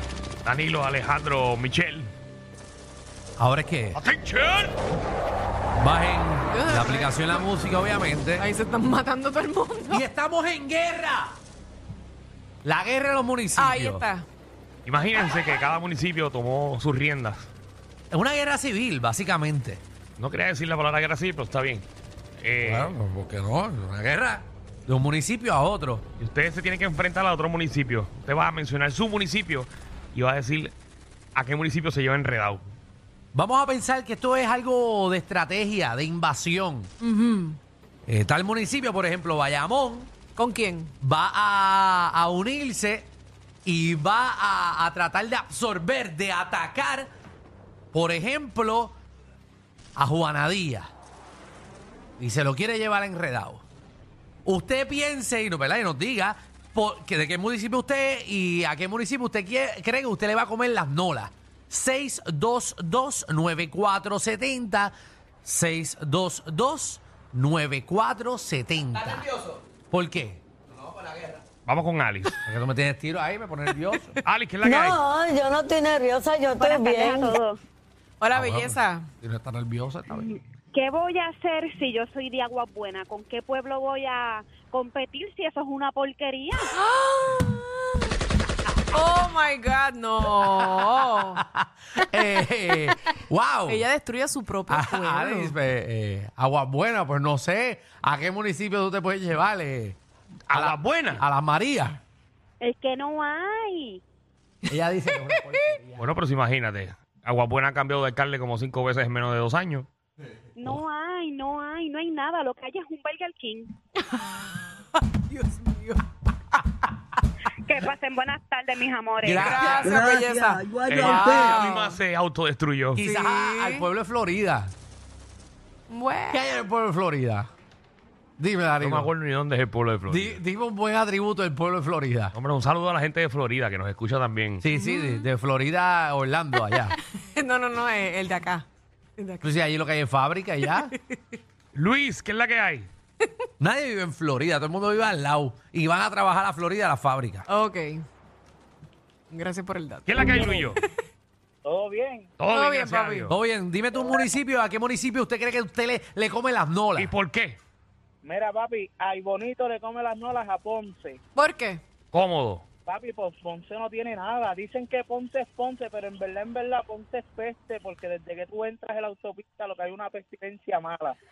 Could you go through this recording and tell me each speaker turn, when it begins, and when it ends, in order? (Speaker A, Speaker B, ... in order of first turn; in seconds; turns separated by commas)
Speaker A: 0.4-2.1, Speaker B: 3.4-4.0, Speaker A: 3.9-4.8, Speaker B: 5.8-8.5, Speaker C: 6.5-7.4, Speaker C: 8.4-10.1, Speaker B: 9.9-11.4, Speaker B: 12.6-14.0, Speaker C: 13.6-14.3, Speaker A: 14.8-17.5, Speaker B: 18.1-19.8, Speaker A: 20.2-21.9, Speaker A: 22.4-22.9, Speaker B: 22.6-26.0, Speaker A: 26.2-30.7, Speaker A: 31.3-32.8, Speaker B: 33.3-36.9, Speaker C: 37.0-37.6, Speaker B: 38.1-40.1, Speaker C: 40.4-40.9, Speaker B: 41.0-43.1, Speaker B: 43.6-47.1, Speaker B: 47.9-49.0, Speaker B: 50.0-50.9, Speaker B: 52.2-53.6, Speaker B: 54.4-64.9, Speaker B: 65.4-69.3, Speaker B: 69.9-70.4, Speaker A: 71.6-72.4, Speaker B: 72.4-74.2, Speaker A: 74.2-75.0, Speaker D: 74.6-77.3, Speaker E: 76.6-77.6, Speaker C: 78.2-79.0, Speaker B: 78.3-80.3, Speaker E: 80.2-86.7, Speaker C: 86.7-88.1, Speaker C: 88.9-91.4, Speaker B: 90.4-93.8, Speaker C: 93.7-95.5, Speaker B: 94.7-100.0, Speaker A: 100.5-101.2, Speaker B: 100.5-102.0, Speaker E: 102.6-104.0, Speaker B: 104.7-106.0, Speaker A: 106.0-109.9, Speaker E: 110.5-113.7, Speaker C: 114.0-116.0, Speaker C: 116.5-116.8, Speaker E: 117.6-119.8, Speaker B: 119.2-120.0, Speaker C: 119.3-120.7, Speaker D: 119.9-121.5, Speaker A: 120.9-123.0, Speaker B: 121.0-121.8, Speaker C: 121.6-121.9, Speaker B: 122.9-124.7, Speaker C: 123.0-123.8, Speaker C: 125.9-126.4, Speaker B: 126.3-127.5, Speaker B: 128.4-129.1, Speaker A: 128.8-130.4, Speaker B: 130.1-132.3, Speaker A: 132.3-134.6, Speaker B: 134.6-136.9, Speaker C: 134.7-135.2, Speaker C: 136.9-138.7, Speaker C: 139.2-139.5, Speaker B: 139.4-140.9, Speaker C: 140.9-141.2, Speaker A: 141.7-142.9, Speaker B: 143.6-147.5, Speaker C: 147.5-148.1, Speaker C: 149.3-150.9, Speaker A: 150.1-150.8, Speaker F: 151.6-152.3, Speaker A: 152.4-153.3, Speaker C: 152.5-153.3, Speaker B: 153.3-157.1, Speaker A: 156.9-157.6, Speaker F: 158.2-161.2, Speaker C: 161.3-161.8, Speaker A: 162.1-162.6, Speaker F: 162.8-171.2